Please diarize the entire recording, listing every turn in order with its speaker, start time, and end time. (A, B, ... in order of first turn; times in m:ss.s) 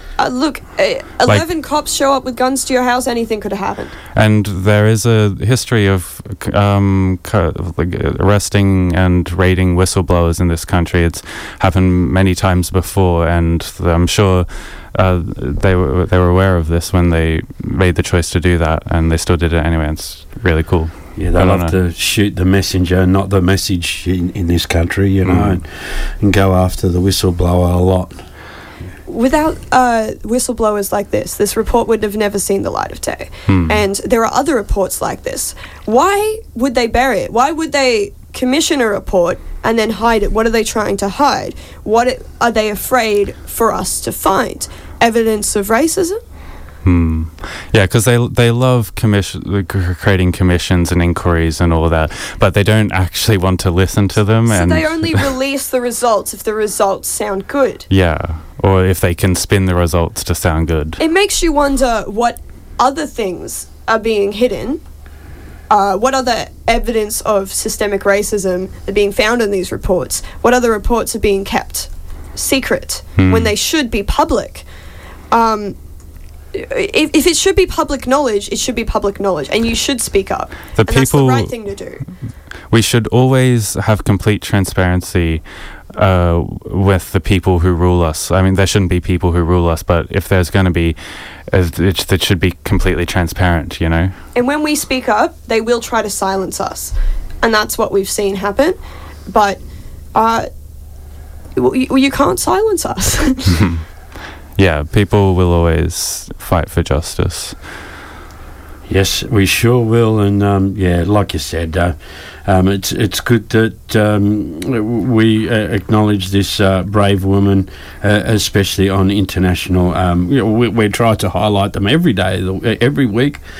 0:00.2-0:03.9 A
0:04.1-0:21.7 B
0:21.2-0:28.2 C
0:25.2-0:25.6 B
0:29.1-0:46.2 A
0:33.5-0:33.8 B
0:46.8-0:55.3 B
0:54.4-0:57.9 A
0:57.9-1:01.0 B
1:01.0-1:04.8 A
1:05.7-1:14.6 A
1:13.2-1:13.5 B
1:15.3-1:15.8 A
1:16.5-1:22.0 A
1:20.8-1:21.5 B
1:22.7-1:34.2 B
1:34.3-1:39.6 A
1:40.1-1:40.5 A
1:41.6-1:43.6 A
1:44.6-1:47.6 B
1:48.9-1:51.9 C
1:52.4-2:03.4 C